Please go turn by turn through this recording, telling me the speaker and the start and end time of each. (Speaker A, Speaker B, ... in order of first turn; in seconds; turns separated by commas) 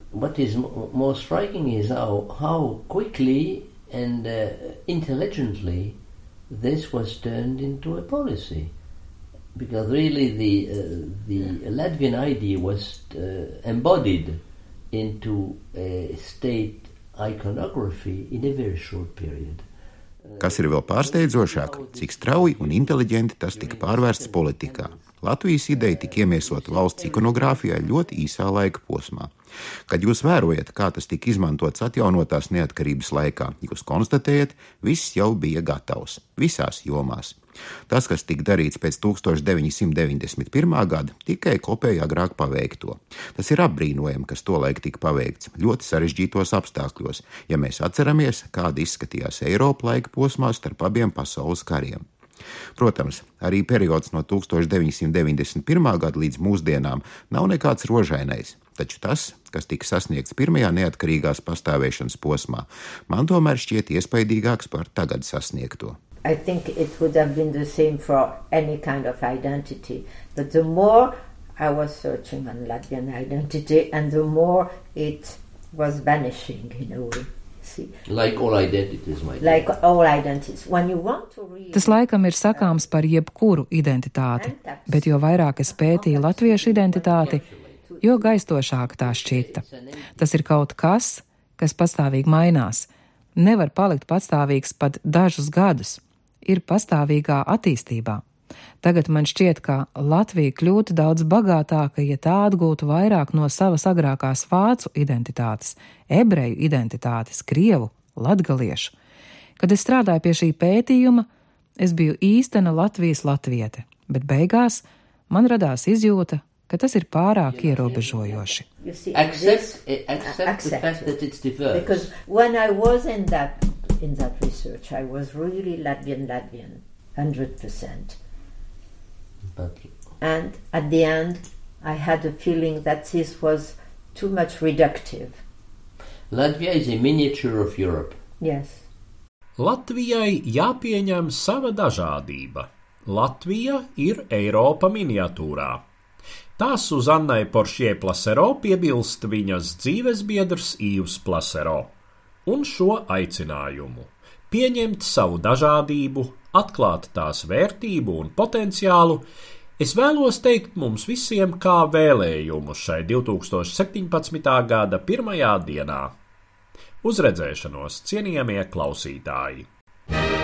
Speaker A: 0.1-6.0, Speaker A: 6.5-8.7, Speaker A: 9.6-19.6, Speaker A: 20.2-28.2, Speaker B: 20.4-29.3, Speaker B: 29.9-37.4, Speaker B: 37.9-52.0, Speaker B: 52.8-66.0, Speaker C: 66.2-77.9, Speaker A: 78.1-79.7, Speaker C: 79.4-82.8, Speaker D: 81.7-87.4, Speaker C: 84.3-88.4, Speaker A: 86.4-87.8, Speaker D: 88.0-89.6, Speaker A: 88.9-90.5, Speaker D: 90.2-98.2, Speaker D: 98.8-108.9, Speaker D: 109.6-111.3, Speaker D: 111.8-118.6, Speaker A: 117.5-122.1, Speaker C: 118.8-121.1, Speaker C: 121.7-128.2, Speaker A: 129.5-129.9, Speaker C: 130.2-135.4, Speaker A: 136.3-138.2, Speaker C: 138.4-138.8, Speaker E: 139.6-145.8, Speaker E: 146.6-151.9, Speaker E: 152.5-159.2, Speaker E: 159.8-166.2, Speaker E: 167.0-169.7